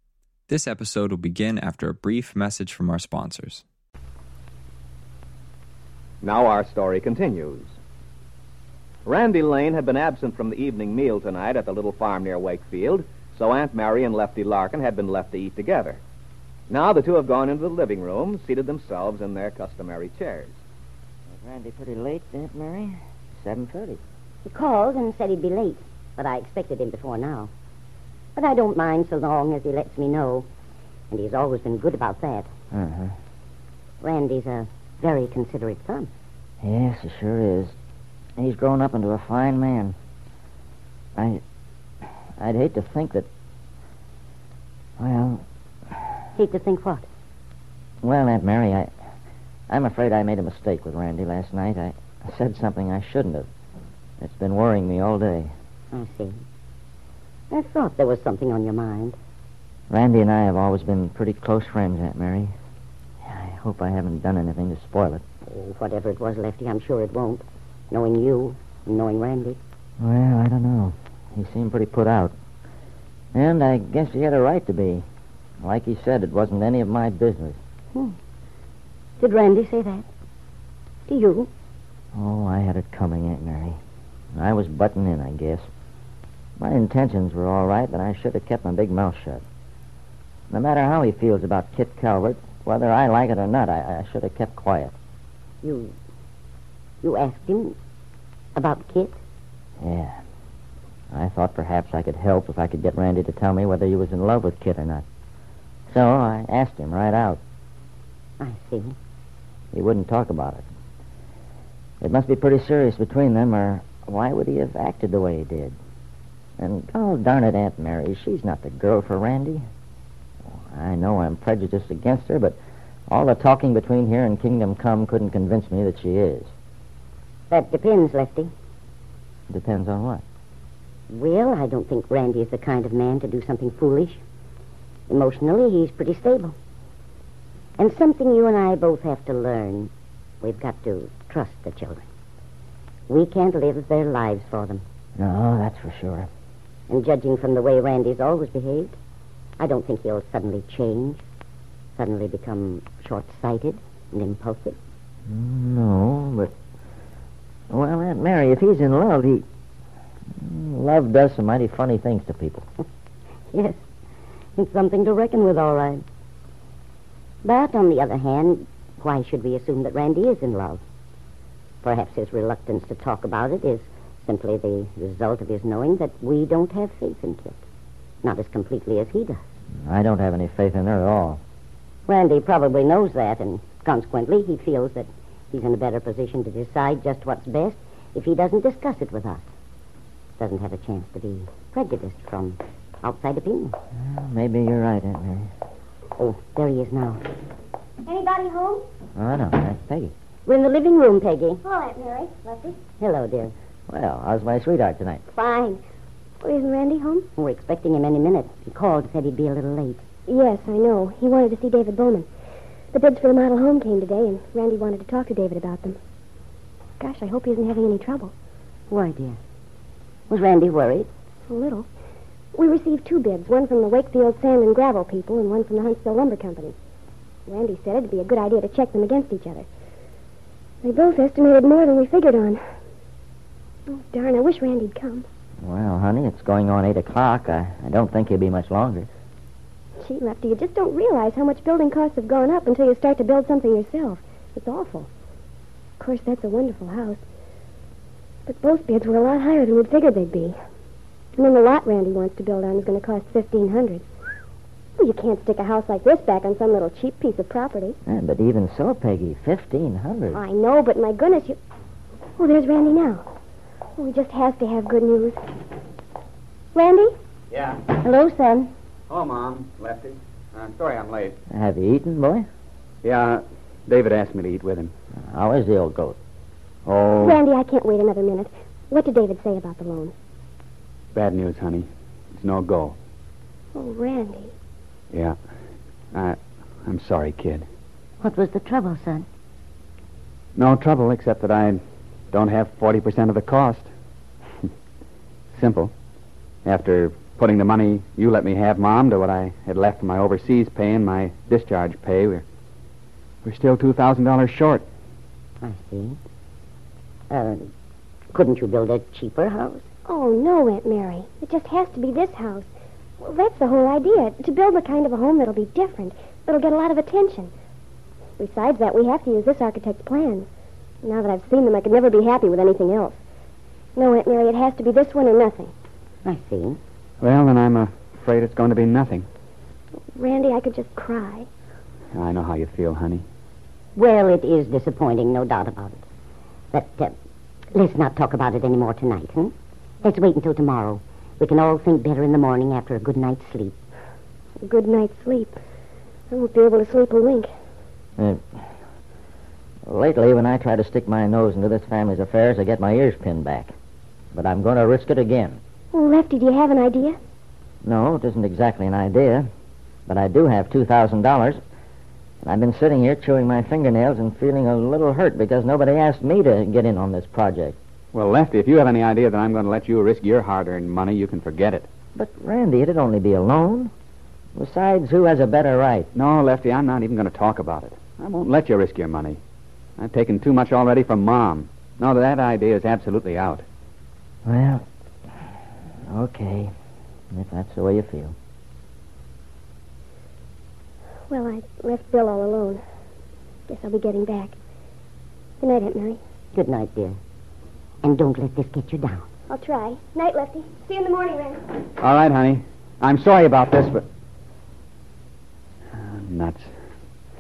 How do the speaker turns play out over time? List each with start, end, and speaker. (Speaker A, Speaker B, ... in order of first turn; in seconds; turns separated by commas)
Speaker A: 0.5-3.6, Speaker B: 6.2-7.8, Speaker B: 9.1-16.0, Speaker B: 16.7-20.6, Speaker C: 21.3-24.0, Speaker D: 24.4-27.5, Speaker D: 28.3-30.5, Speaker D: 31.1-32.5, Speaker C: 32.7-33.1, Speaker D: 34.0-36.1, Speaker C: 36.6-37.7, Speaker C: 38.4-39.9, Speaker C: 41.2-41.4, Speaker C: 42.4-43.3, Speaker C: 45.0-45.4, Speaker D: 46.4-47.0, Speaker C: 48.0-48.9, Speaker C: 49.7-53.5, Speaker C: 54.2-55.5, Speaker D: 55.9-56.4, Speaker D: 57.5-59.2, Speaker C: 59.9-62.5, Speaker C: 63.2-65.2, Speaker D: 65.5-69.6, Speaker C: 70.0-72.3, Speaker C: 73.3-75.0, Speaker C: 75.6-77.6, Speaker D: 79.2-80.1, Speaker D: 81.1-81.5, Speaker C: 82.1-83.8, Speaker C: 84.3-85.7, Speaker C: 86.6-89.4, Speaker C: 90.5-94.9, Speaker D: 95.6-95.9, Speaker D: 97.0-97.7, Speaker D: 98.5-99.2, Speaker C: 99.8-100.2, Speaker C: 101.1-105.0, Speaker C: 105.9-107.4, Speaker D: 108.4-109.0, Speaker C: 109.7-110.7, Speaker C: 112.0-115.8, Speaker C: 116.6-119.6, Speaker C: 120.5-122.6, Speaker C: 123.1-126.5, Speaker D: 127.5-128.5, Speaker C: 129.5-130.2, Speaker D: 131.1-134.2, Speaker D: 135.1-136.5, Speaker D: 137.8-139.9, Speaker D: 140.4-142.0, Speaker D: 143.1-144.8, Speaker C: 145.2-146.3, Speaker D: 146.9-148.9, Speaker D: 149.6-151.2, Speaker D: 152.0-154.8, Speaker C: 155.3-156.5, Speaker C: 157.7-159.4, Speaker C: 160.4-162.6, Speaker D: 163.5-163.8, Speaker D: 164.6-166.0, Speaker D: 167.4-170.8, Speaker D: 171.8-177.6, Speaker D: 178.2-179.4, Speaker C: 179.8-181.4, Speaker D: 182.1-189.4, Speaker D: 190.4-193.8, Speaker C: 193.9-195.5, Speaker D: 196.2-197.2, Speaker E: 198.0-198.8, Speaker C: 199.2-200.1, Speaker D: 200.4-201.6, Speaker E: 201.6-202.8, Speaker D: 203.0-203.5, Speaker C: 203.9-205.2, Speaker E: 205.3-205.8, Speaker E: 206.4-207.2, Speaker D: 207.4-210.0, Speaker E: 210.3-212.3, Speaker E: 212.9-216.0, Speaker E: 217.0-218.3, Speaker D: 218.9-219.4, Speaker D: 220.3-221.1, Speaker E: 221.5-221.9, Speaker E: 222.5-226.7, Speaker E: 227.5-229.7, Speaker E: 230.8-232.6, Speaker E: 233.9-235.2, Speaker C: 235.6-239.1, Speaker E: 240.0-245.1, Speaker E: 246.0-247.2, Speaker E: 248.5-250.6, Speaker E: 251.3-254.1, Speaker E: 255.0-258.0, Speaker C: 258.1-260.4, Speaker E: 260.3-261.6, Speaker E: 262.4-263.3, Speaker E: 264.0-265.4, Speaker E: 266.7-267.1, Speaker F: 267.5-267.8, Speaker D: 267.9-268.7, Speaker F: 269.1-271.3, Speaker C: 271.5-272.4, Speaker F: 273.0-274.9, Speaker C: 275.2-276.2, Speaker F: 276.9-277.4, Speaker E: 277.2-280.1, Speaker F: 281.1-282.9, Speaker E: 283.7-284.5, Speaker F: 286.1-287.6, Speaker D: 288.2-289.2, Speaker F: 290.6-293.9, Speaker F: 295.5-295.9, Speaker F: 296.6-302.4, Speaker F: 303.4-304.9, Speaker D: 305.6-306.2, Speaker D: 307.3-307.7, Speaker D: 308.3-309.9, Speaker E: 310.1-317.5, Speaker E: 318.4-320.5, Speaker E: 321.0-323.2, Speaker E: 323.9-325.7, Speaker D: 326.2-326.8, Speaker F: 327.2-329.3, Speaker E: 330.1-331.5, Speaker F: 332.1-333.2, Speaker D: 333.9-336.0, Speaker D: 336.7-337.1, Speaker D: 337.7-343.8, Speaker E: 344.6-345.6, Speaker E: 346.3-347.5, Speaker C: 349.9-353.7, Speaker C: 354.3-355.6, Speaker E: 355.9-357.2, Speaker C: 357.8-359.5, Speaker C: 360.1-361.6, Speaker C: 362.4-367.8, Speaker F: 368.1-371.9, Speaker C: 372.1-373.9, Speaker C: 374.6-376.1, Speaker F: 376.1-379.4, Speaker F: 380.0-383.6, Speaker C: 384.4-384.8, Speaker C: 386.1-386.7, Speaker C: 387.3-388.3, Speaker E: 391.3-392.8, Speaker E: 393.7-394.5, Speaker E: 395.6-396.2, Speaker D: 396.5-397.2, Speaker D: 398.0-399.2, Speaker E: 399.5-401.6, Speaker F: 402.0-404.0, Speaker F: 405.9-406.7